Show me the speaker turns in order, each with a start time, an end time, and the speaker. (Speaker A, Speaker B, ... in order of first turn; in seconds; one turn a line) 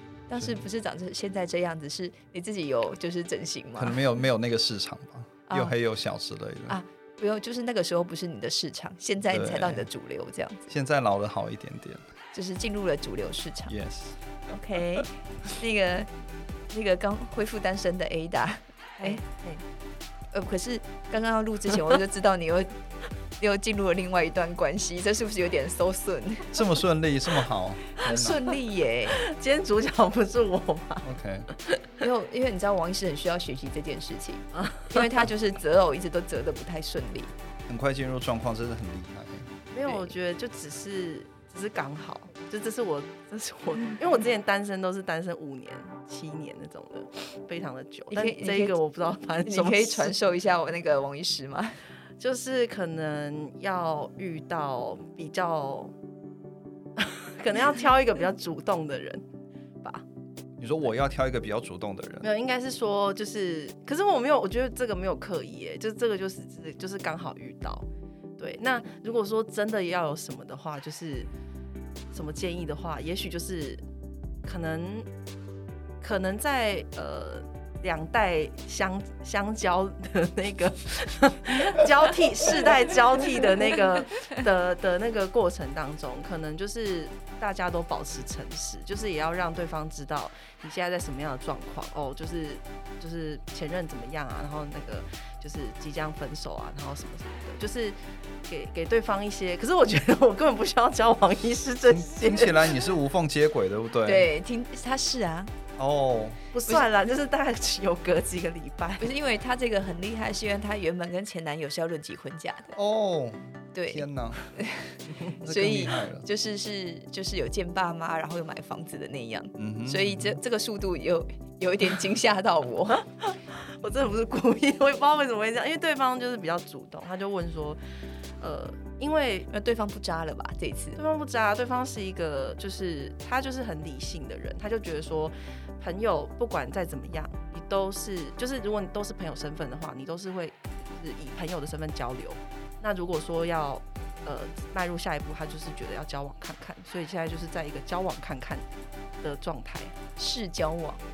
Speaker A: 0.3-4.0
Speaker B: 3.8-6.8
Speaker A: 5.5-5.7
Speaker A: 6.7-10.7
Speaker B: 9.3-9.9
Speaker B: 10.7-12.1
Speaker A: 12.3-13.7
Speaker B: 13.7-14.2
Speaker A: 14.5-16.1
Speaker A: 16.7-19.2
Speaker C: 19.0-19.6
Speaker A: 20.3-22.7
Speaker A: 23.4-26.6
Speaker B: 26.5-28.4
Speaker A: 28.0-29.2
Speaker C: 29.1-31.1
Speaker B: 31.0-31.5
Speaker A: 32.0-37.3
Speaker B: 37.7-39.5
Speaker C: 39.7-50.1
Speaker A: 39.9-40.1
Speaker A: 48.1-48.7
Speaker A: 49.4-51.8
Speaker C: 52.2-55.9
Speaker C: 57.0-59.2
Speaker B: 60.6-62.3
Speaker C: 62.2-67.9
Speaker C: 68.4-71.3
Speaker C: 72.1-73.8
Speaker C: 74.4-75.1
Speaker C: 76.0-102.8
Speaker B: 101.9-104.3
Speaker A: 104.0-105.5
Speaker B: 105.8-106.5
Speaker C: 106.5-109.1
Speaker A: 109.0-112.7
Speaker B: 112.7-114.5
Speaker A: 113.7-123.1
Speaker B: 115.3-116.2
Speaker B: 119.6-120.4
Speaker C: 123.0-127.8
Speaker C: 128.4-129.5
Speaker A: 129.5-131.0
Speaker C: 131.0-148.7
Speaker C: 149.2-149.9
Speaker A: 150.2-151.0